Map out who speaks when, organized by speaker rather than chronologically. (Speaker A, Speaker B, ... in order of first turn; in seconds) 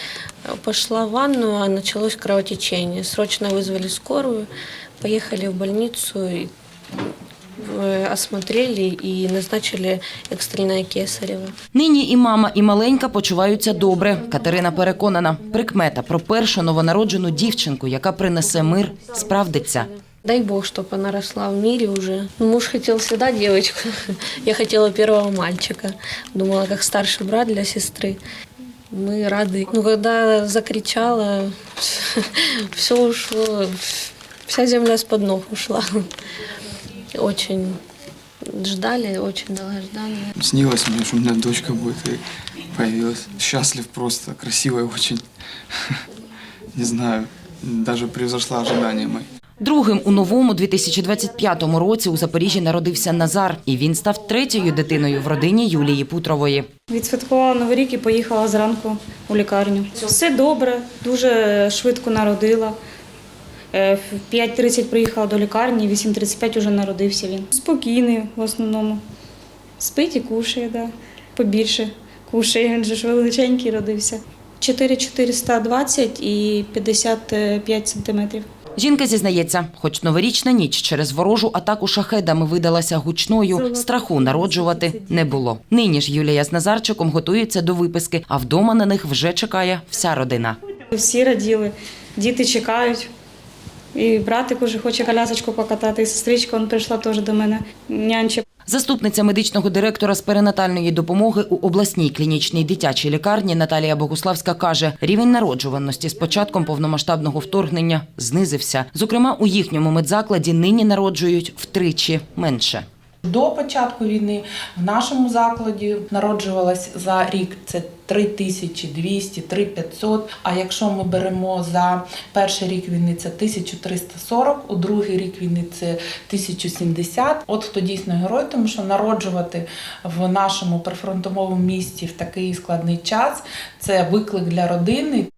Speaker A: 0.5-4.5, 5.0-6.5, 7.6-11.6, 20.1-28.2, 28.9-36.1, 37.1-37.8, 38.5-40.3
Speaker B: 11.7-19.9, 49.6-56.7, 78.8-90.6, 98.7-112.8
Speaker C: 40.4-46.0, 46.7-49.3
Speaker D: 56.9-62.8, 63.7-69.0, 69.8-78.5, 83.8-85.1, 90.9-93.1, 93.9-98.5
Speaker E: 113.2-135.3